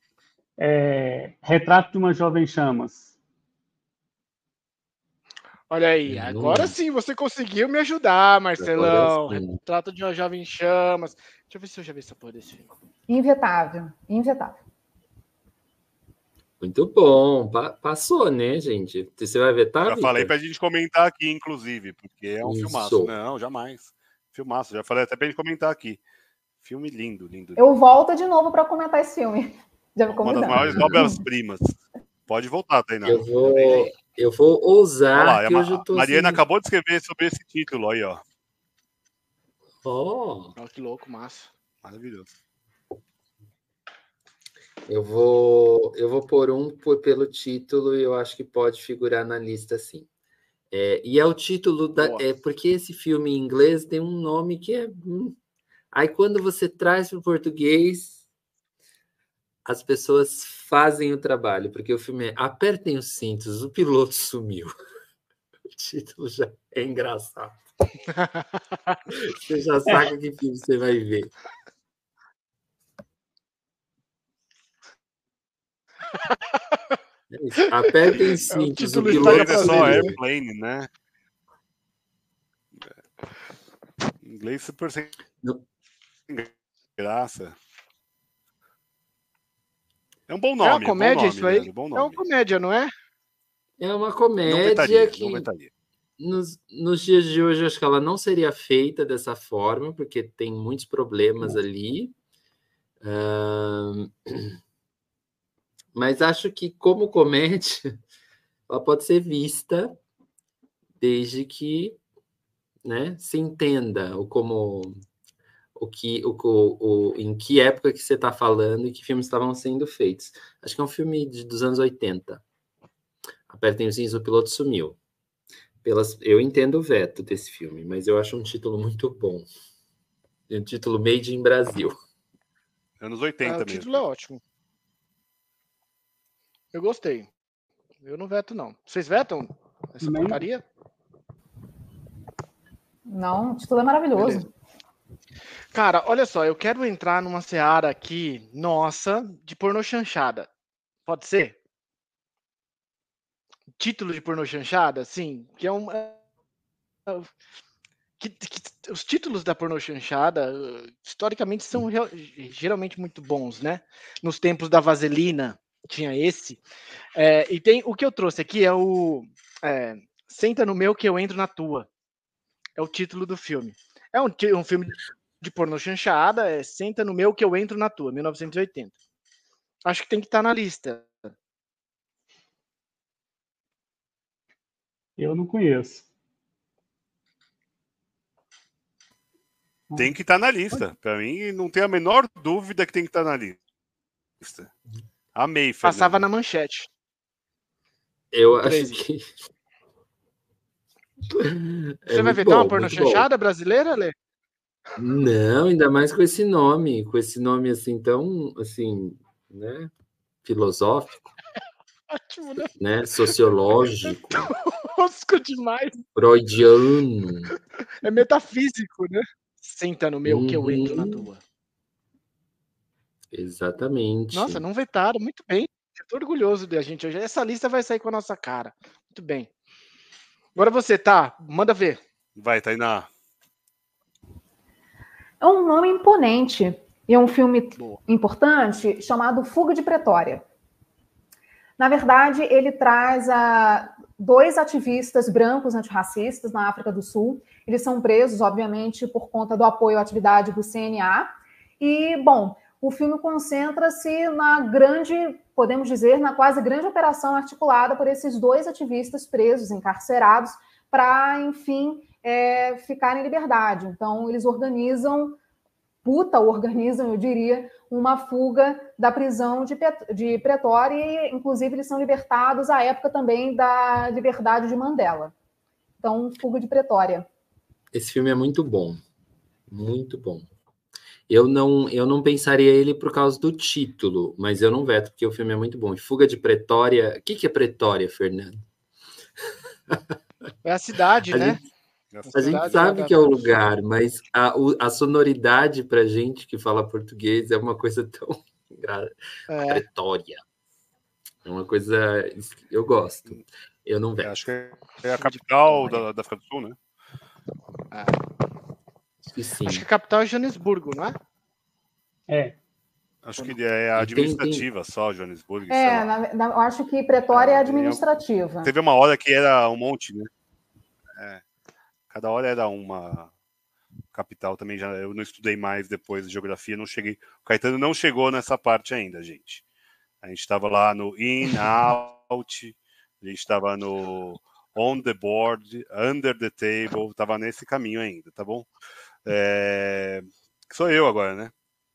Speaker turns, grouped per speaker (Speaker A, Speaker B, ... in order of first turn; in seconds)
Speaker A: 0.6-3.1, 140.0-140.4, 185.2-186.1, 189.9-190.2, 312.3-312.6
Speaker B: 5.7-12.7, 40.6-41.5, 52.0-52.2, 68.2-69.0, 78.0-80.2, 90.6-92.9, 133.4-134.4, 136.7-137.3, 138.0-140.6, 144.2-144.5, 145.7-150.5, 151.1-151.6, 153.8-156.2, 158.2-166.6, 167.2-171.9, 172.8-178.9, 179.8-181.3, 195.8-196.9, 198.6-199.0, 202.1-204.2, 212.1-212.7, 214.3-216.1, 218.0-221.4, 224.3-229.5, 230.6-232.0, 290.6-291.6, 292.3-293.2, 299.5-299.8, 307.9-308.2, 309.7-311.2
Speaker C: 6.1-6.8, 8.6-9.6, 16.6-20.3, 22.4-23.1, 30.6-31.1, 33.0-36.4, 39.8-40.6, 44.9-50.1, 50.7-55.4, 55.9-58.2, 59.6-64.7, 65.7-67.6, 69.1-71.3, 77.3-80.2, 93.8-95.5, 96.2-102.1, 103.0-104.6, 105.9-108.0, 108.7-110.0, 111.0-112.0, 112.8-114.9, 115.8-122.4, 123.5-125.0, 125.8-129.5, 130.5-132.0, 198.3-199.3, 201.3-203.3, 205.0-209.9, 210.4-211.3, 212.8-214.5, 216.2-217.5, 220.2-221.3, 223.3-224.6, 277.9-279.0, 279.7-280.5, 281.3-288.6, 291.3-291.6, 292.3-300.4, 301.4-304.3, 309.2-309.9, 314.0-314.6
Speaker D: 13.1-14.6, 27.6-31.2, 143.1-144.5, 235.4-240.4, 241.8-265.4, 266.0-275.3, 276.0-277.3, 315.7-318.7
Speaker E: 19.9-26.0, 26.6-27.6, 30.2-33.9, 35.1-38.2, 41.8-42.3, 79.0-80.9, 84.2-85.1, 86.3-87.6, 90.3-92.2, 94.5-95.7, 133.0-134.0, 190.0-193.6, 194.4-194.7, 195.3-196.3, 232.4-233.1, 292.1-293.1, 304.2-306.8, 313.2-316.1, 317.3-318.0, 318.6-320.3, 321.2-321.4, 322.1-323.3, 324.1-329.6, 330.2-338.7, 339.3-341.5